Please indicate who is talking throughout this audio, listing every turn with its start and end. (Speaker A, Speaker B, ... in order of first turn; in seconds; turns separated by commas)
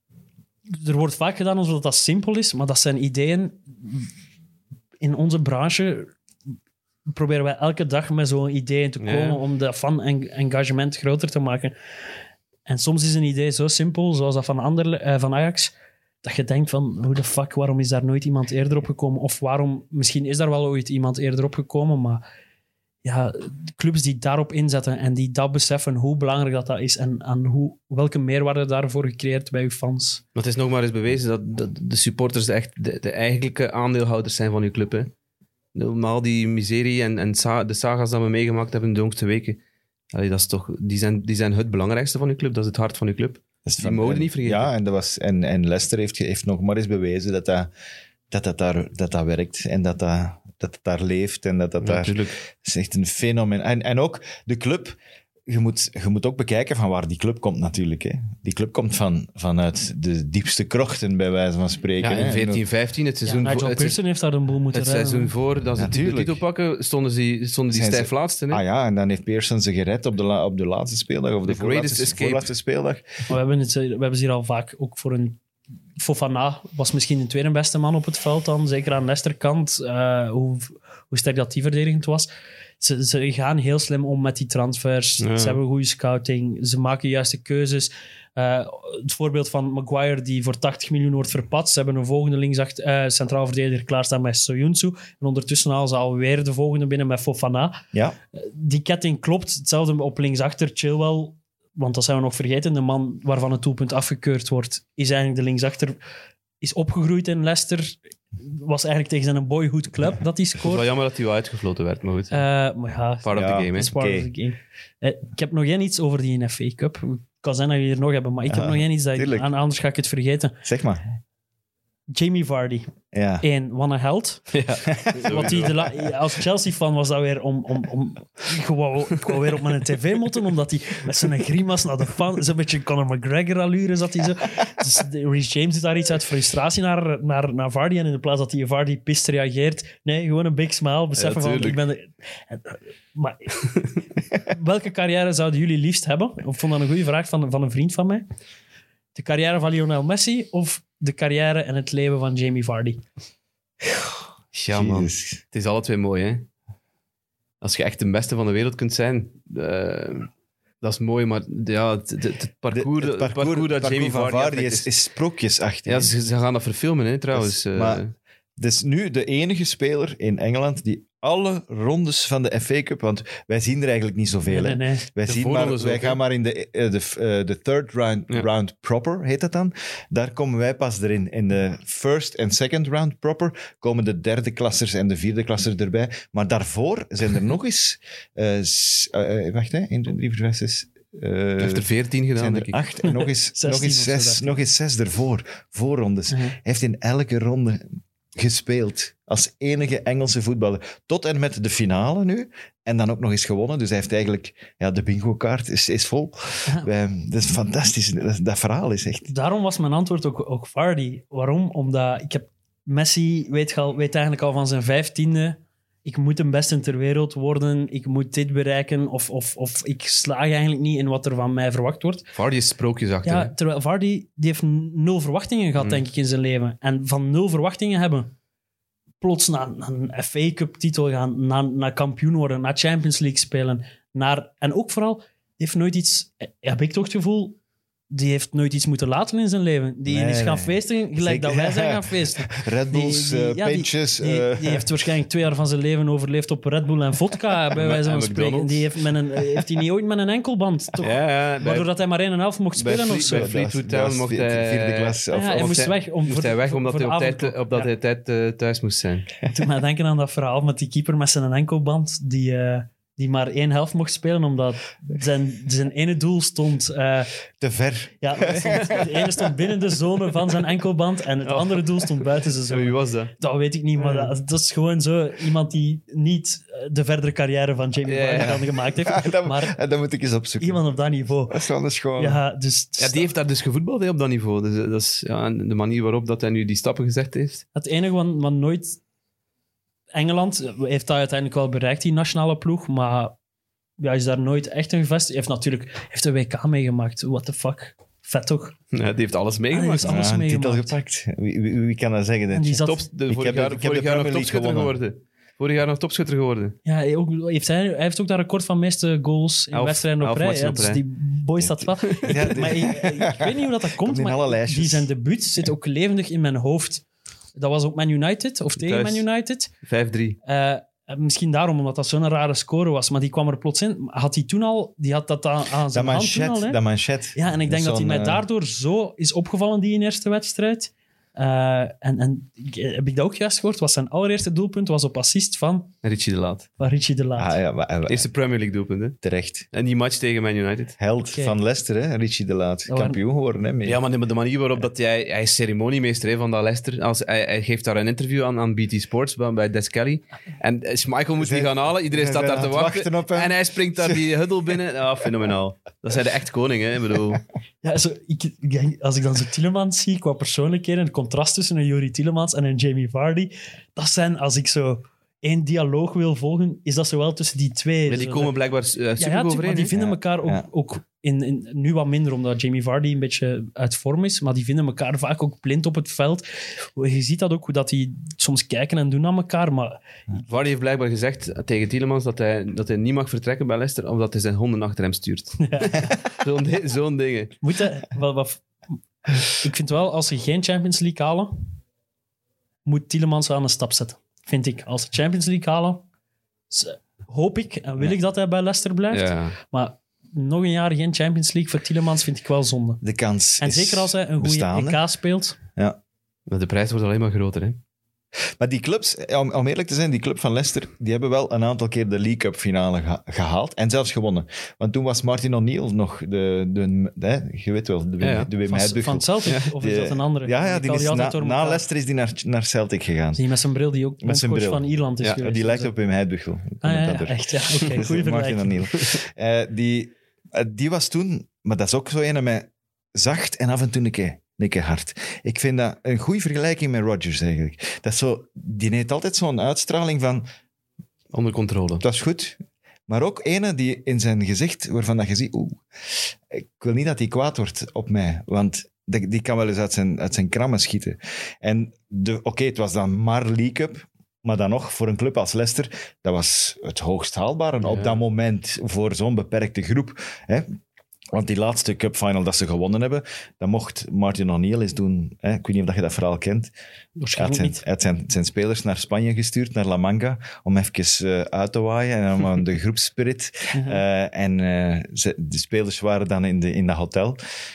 Speaker A: 0.7-4.1, Speaker A: 5.0-6.2, Speaker A: 7.1-11.7, Speaker B: 9.0-9.4, Speaker A: 12.7-22.2, Speaker A: 23.0-30.2, Speaker B: 30.4-35.1, Speaker B: 35.8-39.6, Speaker B: 40.1-44.7, Speaker C: 43.7-47.7, Speaker C: 48.3-62.6, Speaker B: 51.8-52.3, Speaker B: 62.0-64.0, Speaker A: 63.3-65.3, Speaker B: 64.7-68.6, Speaker C: 65.8-66.4, Speaker C: 67.7-73.1, Speaker B: 71.5-72.5, Speaker A: 73.3-75.4, Speaker A: 76.0-82.3, Speaker A: 82.8-97.8, Speaker B: 85.2-85.6, Speaker A: 98.3-106.0, Speaker A: 106.6-110.8, Speaker B: 110.6-112.4, Speaker A: 112.3-120.5, Speaker B: 113.2-113.9, Speaker C: 113.3-114.3, Speaker C: 118.5-119.5, Speaker C: 120.6-121.0, Speaker A: 122.1-124.5, Speaker C: 123.1-123.4, Speaker B: 124.5-125.9, Speaker C: 124.9-125.5, Speaker A: 125.2-143.6, Speaker B: 141.2-141.8, Speaker B: 143.6-144.0, Speaker A: 144.5-148.3, Speaker A: 149.2-153.0, Speaker B: 154.6-156.5, Speaker C: 154.7-155.4, Speaker B: 157.6-160.3, Speaker B: 160.8-164.9, Speaker C: 162.7-166.1, Speaker B: 165.9-168.1, Speaker C: 167.3-168.0, Speaker C: 168.6-209.3, Speaker A: 174.5-175.1, Speaker B: 175.3-176.2, Speaker B: 191.6-192.8, Speaker A: 193.0-194.6, Speaker A: 196.3-196.6, Speaker A: 209.3-222.3, Speaker B: 222.3-223.5, Speaker A: 223.2-228.3, Speaker A: 229.2-237.6, Speaker A: 238.1-253.5, Speaker C: 240.1-244.9, Speaker B: 247.8-248.9, Speaker B: 251.0-251.9, Speaker B: 252.8-259.3, Speaker C: 253.2-255.8, Speaker A: 255.3-257.9, Speaker A: 259.5-267.3, Speaker C: 267.6-269.3, Speaker A: 268.2-279.8, Speaker B: 268.5-269.0, Speaker B: 271.4-273.3, Speaker B: 278.1-278.7, Speaker C: 278.4-280.8, Speaker A: 280.6-281.6, Speaker C: 281.5-282.4, Speaker A: 282.2-283.3, Speaker B: 283.0-287.6, Speaker A: 287.8-289.0, Speaker A: 290.1-293.4, Speaker A: 294.0-298.8, Speaker B: 298.9-300.2, Speaker A: 299.7-301.0, Speaker C: 300.0-304.9, Speaker A: 302.5-303.1, Speaker B: 302.9-306.8, Speaker A: 306.9-317.1, Speaker B: 309.7-311.0, Speaker C: 312.2-315.1, Speaker A: 317.6-319.7, Speaker B: 318.8-319.2, Speaker B: 319.8-320.4, Speaker A: 320.4-326.8, Speaker C: 325.9-328.4, Speaker A: 327.4-335.9, Speaker B: 336.0-336.7, Speaker A: 336.8-337.6, Speaker C: 337.4-338.3, Speaker B: 338.1-339.2, Speaker C: 339.2-339.7, Speaker B: 339.7-341.0, Speaker C: 341.0-344.0, Speaker A: 341.3-341.6, Speaker A: 342.9-343.2, Speaker B: 343.8-357.4, Speaker C: 351.4-354.2, Speaker A: 357.8-368.5, Speaker B: 368.1-369.9, Speaker A: 369.2-376.4, Speaker C: 369.9-370.7, Speaker A: 377.0-380.0, Speaker B: 380.5-387.5, Speaker A: 385.6-386.1, Speaker A: 387.6-391.7, Speaker A: 392.9-396.1, Speaker A: 396.7-403.0, Speaker B: 399.1-399.6, Speaker C: 403.0-405.0, Speaker A: 403.6-405.6, Speaker B: 406.5-407.8, Speaker C: 408.6-423.4, Speaker B: 418.2-418.5, Speaker A: 418.7-421.8, Speaker A: 423.4-425.9, Speaker C: 424.2-424.9, Speaker C: 425.4-440.4, Speaker A: 426.8-428.9, Speaker B: 441.3-442.0, Speaker C: 442.0-460.7, Speaker B: 457.8-458.2, Speaker C: 461.3-466.7, Speaker A: 467.2-467.8, Speaker C: 467.3-477.4, Speaker A: 473.7-474.0